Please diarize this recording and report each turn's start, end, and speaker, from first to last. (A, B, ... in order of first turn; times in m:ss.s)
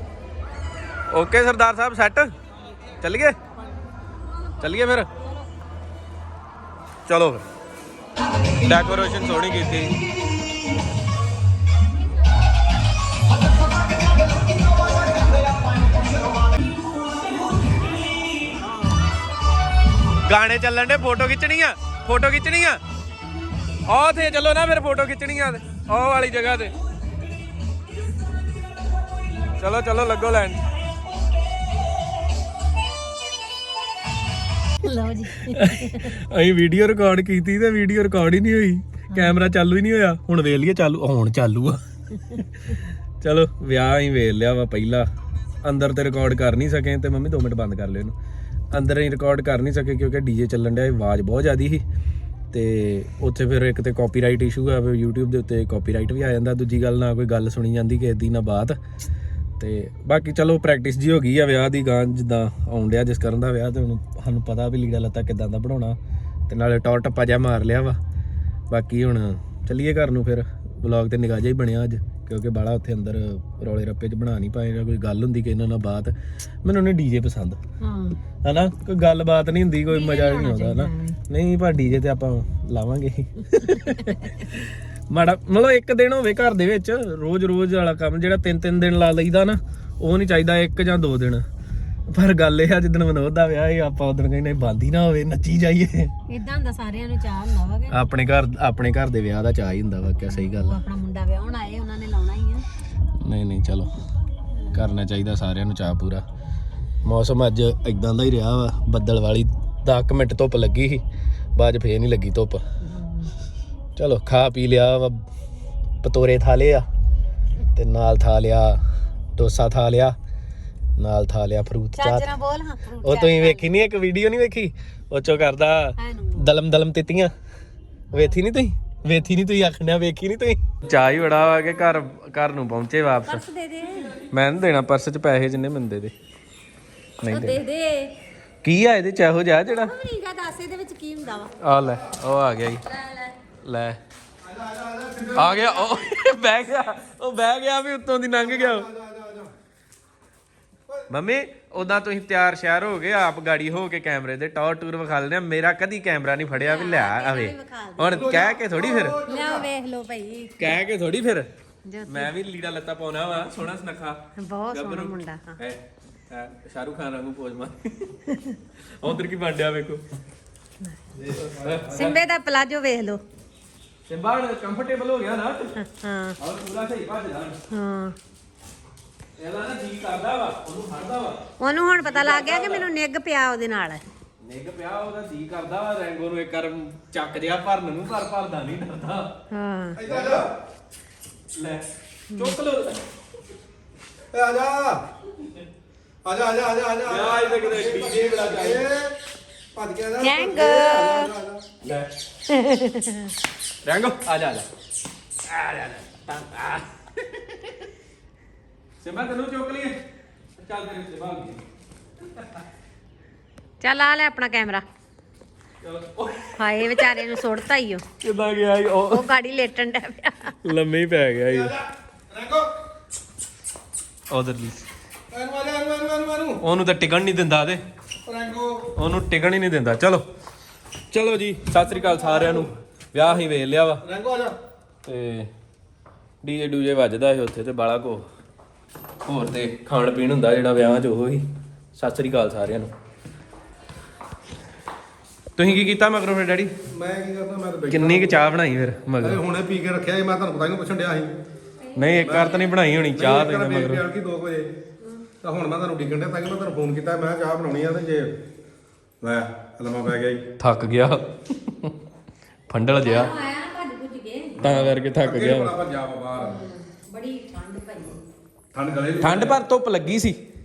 0:01.1-0:02.3 A
0:03.0-0:03.4 A
0:04.6-0:05.1 A
0:07.1-0:07.4 A
0:08.6-0:10.0 A
0:20.2-0:22.8 A
0:23.9-0:26.7 A
0:29.6-0:30.6 A
0:34.8-0:36.1 B
0:35.4-0:45.1 A
0:45.6-0:48.2 A
0:48.7-0:51.8 A
0:52.5-0:58.8 A
0:59.6-1:06.0 A
1:06.5-1:08.0 A
1:08.7-1:17.6 A
1:17.8-1:18.2 B
1:18.4-1:31.4 A
1:19.9-1:21.2 B
1:32.1-1:36.1 A
1:36.3-1:38.0 B
1:37.9-1:40.8 A
1:40.3-1:42.7 B
1:43.2-1:43.9 A
1:44.6-1:44.8 B
1:44.7-1:46.2 A
1:47.0-1:51.0 A
1:51.6-1:52.6 A
1:52.8-1:53.3 B
1:54.0-1:55.2 A
1:56.0-1:56.8 A
1:57.7-1:58.8 A
1:59.4-2:00.1 A
2:01.0-2:02.3 A
2:01.9-2:03.7 B
2:03.0-2:07.3 A
2:06.0-2:06.5 B
2:08.1-2:13.4 A
2:13.3-2:14.2 B
2:14.3-2:16.1 A
2:17.2-2:17.6 A
2:17.3-2:18.1 B
2:18.6-2:19.9 A
2:19.6-2:21.5 B
2:21.6-2:22.8 A
2:22.8-2:23.3 B
2:23.6-2:24.0 A
2:24.4-2:25.7 C
2:25.3-2:28.9 A
2:28.4-2:29.5 C
2:31.1-2:39.2 A
2:36.6-2:38.2 B
2:38.0-2:39.7 C
2:39.2-2:40.7 B
2:40.6-2:41.5 A
2:41.8-2:42.3 B
2:42.0-2:50.0 A
2:44.4-2:45.6 B
2:51.2-2:52.2 A
2:51.4-2:52.0 C
2:51.9-2:53.2 B
2:54.1-2:55.7 A
2:55.8-2:56.4 B
2:56.4-2:57.6 A
2:57.7-2:58.2 B
2:59.4-3:02.9 A
3:01.6-3:04.0 B
3:04.4-3:09.3 A
3:09.5-3:10.0 B
3:10.0-3:10.5 C
3:10.0-3:10.5 A
3:11.5-3:13.0 A
3:12.3-3:12.6 B
3:14.3-3:15.0 C
3:16.2-3:19.1 C
3:17.0-3:18.9 A
3:19.7-3:21.6 C
3:20.2-3:21.3 B
3:21.8-3:22.1 A
3:22.5-3:23.3 B
3:23.8-3:24.7 A
3:25.4-3:26.9 A
3:29.0-3:29.9 A
3:30.6-3:31.6 A
3:33.8-3:34.8 B
3:35.8-3:37.3 A
3:36.6-3:38.0 B
3:38.2-3:39.3 A
3:39.1-3:40.6 B
3:40.6-3:41.7 A
3:41.5-3:42.7 C
3:44.3-3:44.9 A
3:45.3-3:46.6 C
3:46.6-3:47.8 A
3:48.2-3:48.9 C
3:48.9-3:50.2 A
3:51.1-3:54.0 A
3:52.0-3:52.7 C
3:54.0-3:54.6 C
3:55.0-3:55.5 A
3:56.4-3:58.3 A
3:59.2-4:02.9 A
4:05.6-4:06.7 A
4:06.9-4:08.5 C
4:07.9-4:09.4 A
4:09.2-4:11.3 C
4:11.8-4:12.8 B
4:11.9-4:14.0 A
4:12.1-4:14.7 C
4:15.0-4:15.3 B
4:15.4-4:18.3 C
4:19.2-4:20.5 C
4:20.6-4:21.9 A
4:22.7-4:23.3 A
4:23.0-4:24.6 B
4:24.6-4:25.8 A
4:24.6-4:26.7 C
4:26.4-4:28.2 B
4:28.7-4:29.6 C
4:29.2-4:30.4 A